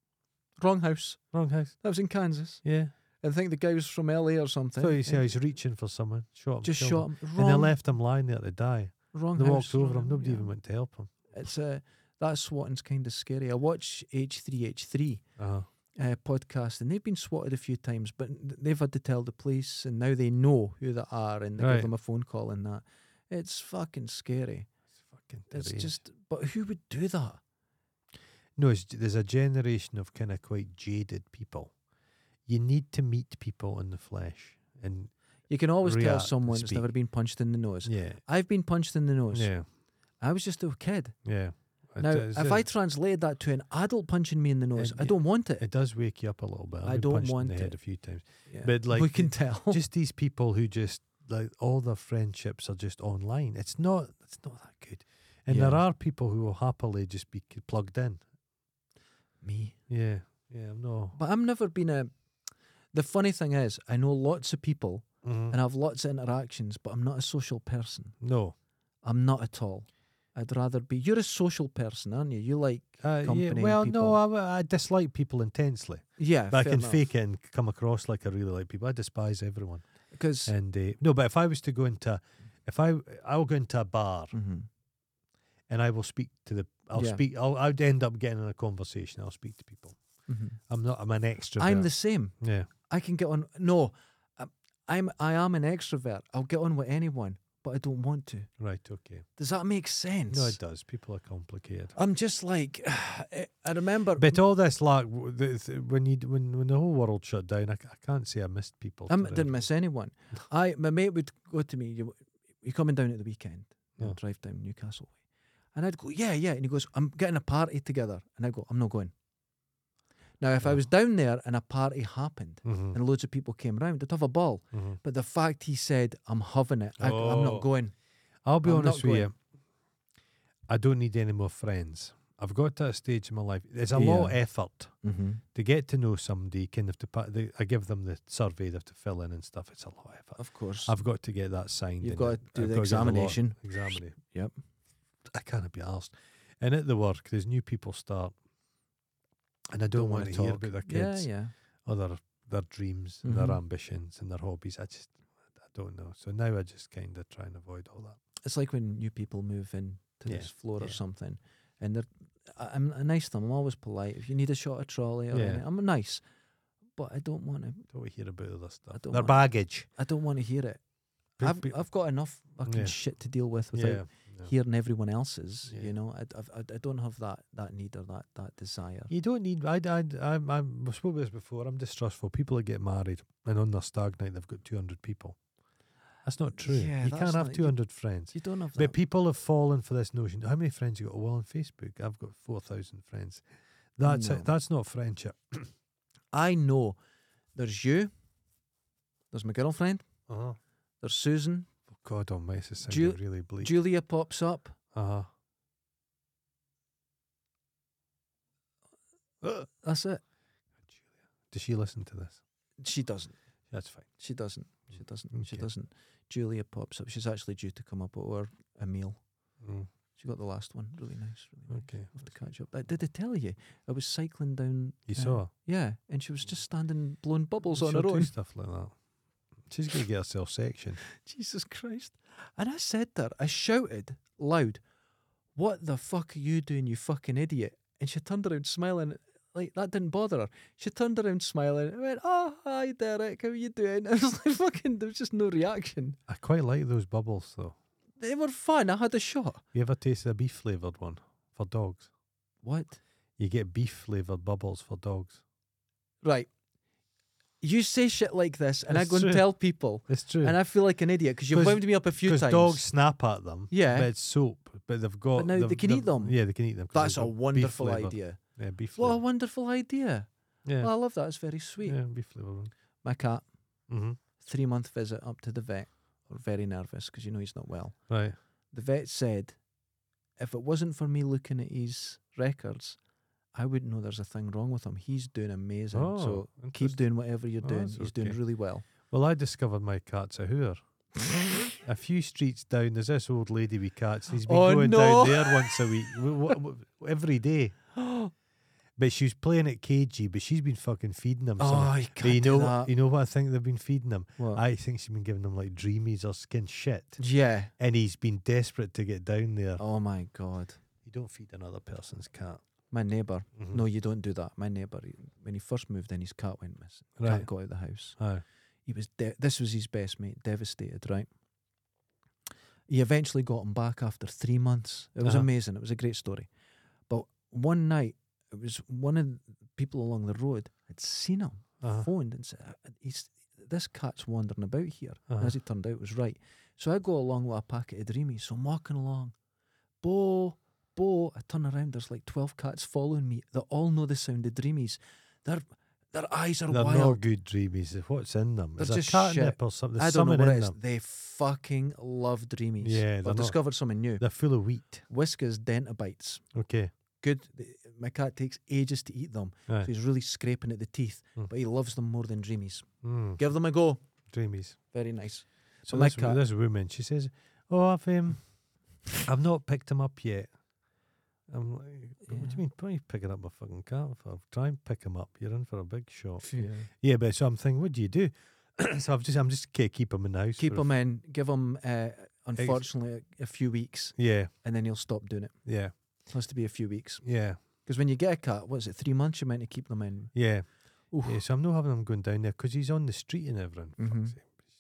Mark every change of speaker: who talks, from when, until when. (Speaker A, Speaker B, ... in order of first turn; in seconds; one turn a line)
Speaker A: 0.6-2.6
Speaker B: 1.3-1.8
Speaker B: 2.6-2.9
Speaker A: 3.2-5.3
Speaker B: 4.8-11.3
Speaker A: 6.6-7.8
Speaker A: 9.1-10.5
Speaker A: 11.3-15.2
Speaker B: 15.4-15.7
Speaker A: 15.9-24.7
Speaker B: 21.6-21.9
Speaker B: 25.1-25.9
Speaker A: 25.5-27.4
Speaker B: 28.6-31.7
Speaker B: 32.5-35.1
Speaker A: 35.5-39.5
Speaker B: 35.8-36.9
Speaker B: 37.9-38.2
Speaker B: 39.3-39.7
Speaker A: 40.2-41.2
Speaker B: 41.2-42.7
Speaker A: 42.0-45.6
Speaker B: 44.8-58.2
Speaker A: 46.9-47.8
Speaker A: 48.5-49.8
Speaker A: 55.5-55.8
Speaker A: 59.4-59.8
Speaker B: 59.9-61.2
Speaker A: 61.1-62.1
Speaker A: 62.9-68.2
Speaker B: 65.2-65.6
Speaker B: 68.2-68.5
Speaker A: 69.0-74.2
Speaker B: 73.0-79.8
Speaker A: 76.2-77.0
Speaker A: 80.1-80.5
Speaker B: 80.5-84.3
Speaker A: 84.3-84.7
Speaker B: 85.7-90.0
Speaker A: 86.9-87.2
Speaker A: 90.3-90.6
Speaker B: 90.7-91.9
Speaker A: 91.6-92.3
Speaker B: 92.4-92.7
Speaker A: 92.9-98.5
Speaker B: 98.6-99.3
Speaker A: 99.4-100.6
Speaker B: 100.3-102.0
Speaker A: 102.0-104.4
Speaker B: 104.2-109.7
Speaker A: 109.1-115.2
Speaker A: 115.7-119.1
Speaker A: 120.4-127.9
Speaker B: 122.7-123.0
Speaker B: 124.7-125.0
Speaker B: 127.0-127.7
Speaker B: 128.4-129.3
Speaker A: 128.6-129.3
Speaker B: 130.7-134.9
Speaker A: 133.9-134.4
Speaker A: 135.0-135.4
Speaker B: 135.5-144.2
Speaker A: 140.4-141.0
Speaker A: 142.0-144.5
Speaker B: 145.2-148.4
Speaker B: 149.7-151.3
Speaker A: 149.9-151.5
Speaker B: 151.8-158.2
Speaker A: 153.2-153.6
Speaker A: 158.4-166.2
Speaker B: 160.3-161.0
Speaker B: 165.3-165.6
Speaker A: 167.0-167.9
Speaker B: 167.9-169.9
Speaker A: 168.9-170.8
Speaker A: 171.4-179.1
Speaker B: 171.4-171.8
Speaker B: 172.7-172.9
Speaker B: 173.7-174.5
Speaker B: 179.1-185.4
Speaker B: 186.2-193.4
Speaker A: 186.6-187.8
Speaker A: 188.3-189.0
Speaker B: 194.0-195.7
Speaker A: 194.0-194.5
Speaker A: 196.3-197.0
Speaker A: 197.6-198.1
Speaker A: 199.3-200.1
Speaker B: 200.3-200.6
Speaker A: 201.0-201.7
Speaker B: 201.9-203.8
Speaker A: 202.9-204.8
Speaker B: 204.9-205.3
Speaker A: 209.5-210.2
Speaker B: 210.9-212.4
Speaker A: 212.8-213.3
Speaker B: 213.7-214.1
Speaker A: 214.2-219.2
Speaker B: 215.3-215.7
Speaker B: 219.6-219.9
Speaker A: 220.2-228.3
Speaker B: 221.7-222.3
Speaker B: 225.1-225.5
Speaker B: 227.8-229.0
Speaker B: 229.7-231.0
Speaker A: 231.1-234.8
Speaker A: 235.6-246.2
Speaker B: 246.3-247.8
Speaker A: 248.2-249.6
Speaker B: 249.7-252.1
Speaker A: 252.6-253.0
Speaker B: 253.4-255.4
Speaker A: 256.2-256.5
Speaker A: 257.6-262.9
Speaker B: 258.9-259.5
Speaker B: 260.1-260.6
Speaker B: 261.5-269.2
Speaker A: 263.7-264.1
Speaker A: 265.4-266.4
Speaker A: 266.9-268.4
Speaker A: 268.9-272.0
Speaker B: 270.6-270.9
Speaker B: 271.8-272.7
Speaker A: 273.0-273.4
Speaker B: 273.9-274.2
Speaker A: 274.4-278.0
Speaker B: 278.1-278.4
Speaker A: 278.7-279.6
Speaker A: 280.4-283.0
Speaker A: 283.5-288.9
Speaker B: 285.9-287.0
Speaker B: 287.6-288.4
Speaker B: 289.0-290.8
Speaker B: 291.8-297.8
Speaker A: 294.4-296.5
Speaker A: 298.0-298.3
Speaker B: 299.0-307.2
Speaker A: 301.6-302.9
Speaker A: 307.2-307.7
Speaker B: 307.8-309.8
Speaker A: 309.8-310.8
Speaker B: 311.0-312.6
Speaker A: 312.9-318.2
Speaker B: 313.6-313.8
Speaker B: 317.2-317.5
Speaker B: 318.2-318.4
Speaker A: 318.9-321.3
Speaker A: 322.9-326.5
Speaker A: 327.1-339.3
Speaker B: 331.8-332.1
Speaker A: 340.0-347.2
Speaker B: 346.7-350.8
Speaker A: 348.8-354.2
Speaker B: 352.8-353.6
Speaker B: 354.2-355.1
Speaker A: 355.1-356.5
Speaker B: 356.5-356.9
Speaker A: 357.2-364.0
Speaker B: 363.0-363.4
Speaker B: 364.3-364.8
Speaker A: 364.9-366.4
Speaker B: 365.9-368.4
Speaker B: 369.2-370.5
Speaker B: 371.5-380.9
Speaker A: 372.3-372.6
Speaker A: 376.4-376.9
Speaker A: 380.6-385.6
Speaker B: 382.6-382.9
Speaker B: 384.2-384.5
Speaker B: 385.6-385.9
Speaker A: 386.3-390.4
Speaker B: 387.2-387.6
Speaker B: 390.3-390.7
Speaker A: 391.1-391.4
Speaker B: 391.2-394.6
Speaker A: 394.0-394.4